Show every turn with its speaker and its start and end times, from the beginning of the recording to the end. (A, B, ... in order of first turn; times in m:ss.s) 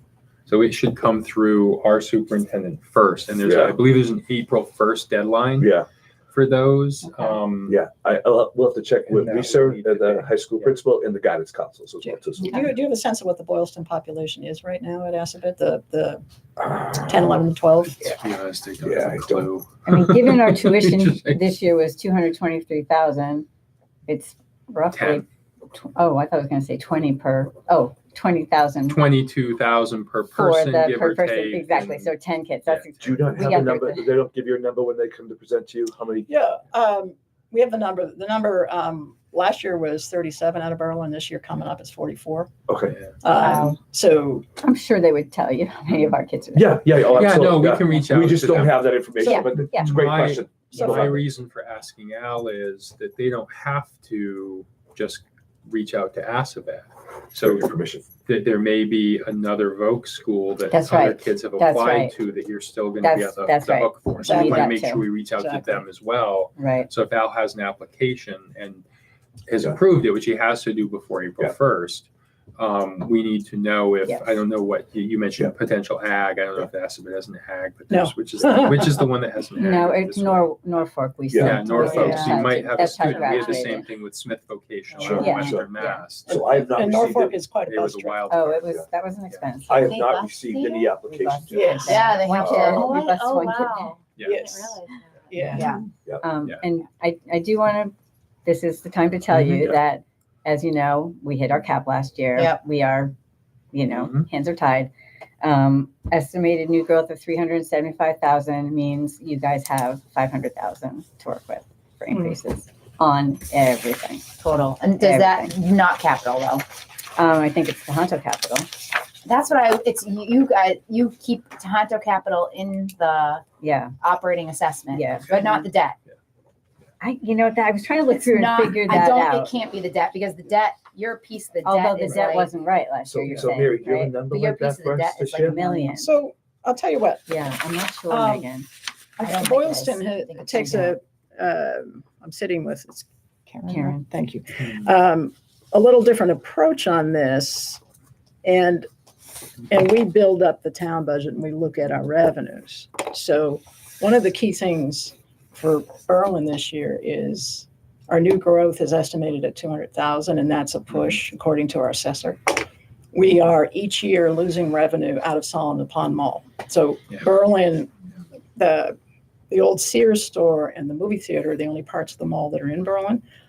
0:00.5-0:05.7 A
0:03.4-0:03.8 B
0:05.6-0:05.9 B
0:06.3-0:07.8 A
0:07.7-0:12.6 B
0:09.1-0:10.7 A
0:12.0-0:18.2 C
0:18.0-0:21.4 A
0:18.8-0:19.5 B
0:19.9-0:23.5 D
0:24.1-0:29.0 D
0:25.0-0:25.2 A
0:28.9-0:32.1 A
0:30.3-0:34.1 D
0:32.7-0:36.3 B
0:36.3-0:42.5 C
0:42.7-0:43.0 B
0:43.2-0:44.5 C
0:43.4-0:43.7 D
0:44.6-0:47.2 D
0:46.5-0:51.3 B
0:47.1-0:49.0 A
0:49.2-0:49.9 D
0:49.5-0:57.7 A
0:57.4-0:58.1 B
0:58.2-1:08.8 A
1:00.7-1:02.2 D
1:03.0-1:05.1 D
1:04.2-1:05.9 C
1:06.6-1:06.9 D
1:09.5-1:20.5 A
1:17.9-1:19.0 C
1:19.6-1:23.9 D
1:21.3-1:21.6 B
1:21.4-1:26.5 A
1:21.7-1:22.4 C
1:25.0-1:25.7 B
1:25.1-1:26.0 D
1:26.3-1:27.4 B
1:26.3-1:28.2 C
1:27.7-1:28.6 A
1:28.3-1:30.0 D
1:29.7-1:33.0 B
1:29.8-1:30.9 E
1:31.1-1:34.0 D
1:31.5-1:32.2 C
1:31.9-1:35.8 E
1:34.2-1:34.4 A
1:34.2-1:35.8 C
1:36.2-1:37.9 D
1:38.4-1:43.2 D
1:39.3-1:39.8 A
1:43.7-1:54.4 D
1:43.9-1:44.3 A
1:54.4-1:56.7 E
1:55.0-1:55.5 D
1:57.1-1:58.8 D
1:59.2-2:03.5 E
2:03.6-2:04.0 D
2:04.0-2:06.0 E
2:04.9-2:05.7 D
2:07.0-2:09.5 D
2:08.2-2:12.5 E
2:11.6-2:14.2 D
2:13.1-2:15.6 B
2:14.3-2:16.0 E
2:15.5-2:16.1 D
2:16.0-2:17.3 C
2:17.3-2:18.7 D
2:18.1-2:18.5 C
2:19.2-2:27.8 C
2:19.2-2:20.9 E
2:23.7-2:24.0 D
2:28.4-2:28.9 C
2:29.7-2:47.9 C
2:48.6-2:49.0 C
2:49.5-2:53.2 C